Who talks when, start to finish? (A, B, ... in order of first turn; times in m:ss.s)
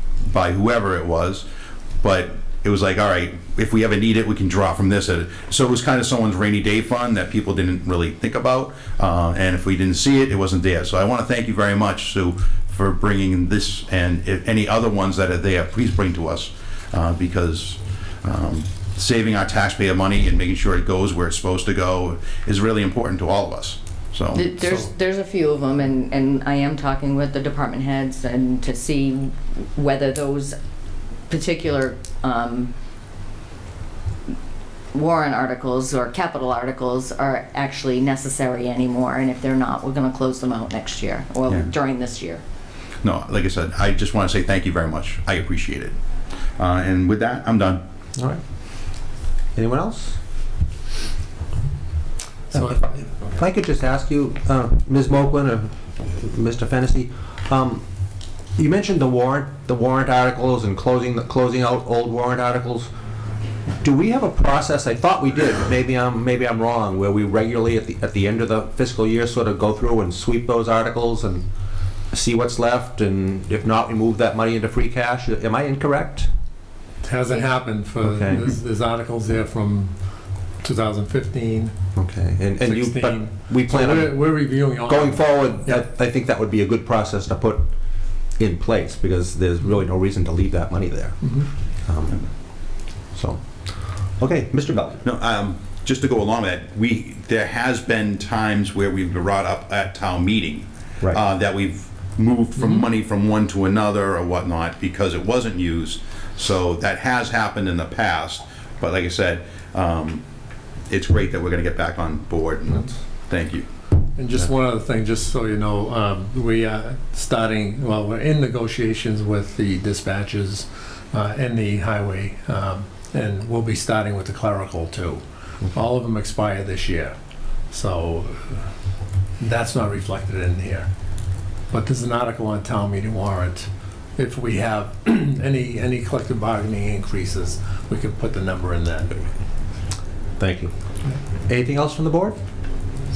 0:00.3-0:01.4 A
0:02.0-0:24.5 A
0:24.3-0:30.6 B
0:24.6-0:24.9 C
0:31.3-0:32.7 B
0:34.9-0:42.4 B
0:43.0-0:46.0 A
0:46.6-0:47.8 A
0:49.5-0:50.2 D
0:52.5-0:53.1 C
0:53.3-0:57.8 D
0:58.6-1:02.9 D
1:03.8-1:11.4 D
1:12.1-1:16.3 D
1:17.0-1:19.9 C
1:18.0-1:18.5 D
1:20.6-1:21.7 C
1:21.9-1:24.2 D
1:22.6-1:25.8 C
1:24.8-1:27.7 D
1:28.4-1:31.3 D
1:31.2-1:31.5 C
1:31.8-1:33.4 D
1:34.2-1:35.0 D
1:35.0-1:50.2 A
1:42.6-1:42.8 C
1:50.9-1:53.6 A
1:54.2-2:07.1 C
2:07.7-2:08.6 C
2:09.4-2:10.9 C
2:11.7-2:19.3 C
2:20.4-2:20.7 D
2:21.4-2:22.4 D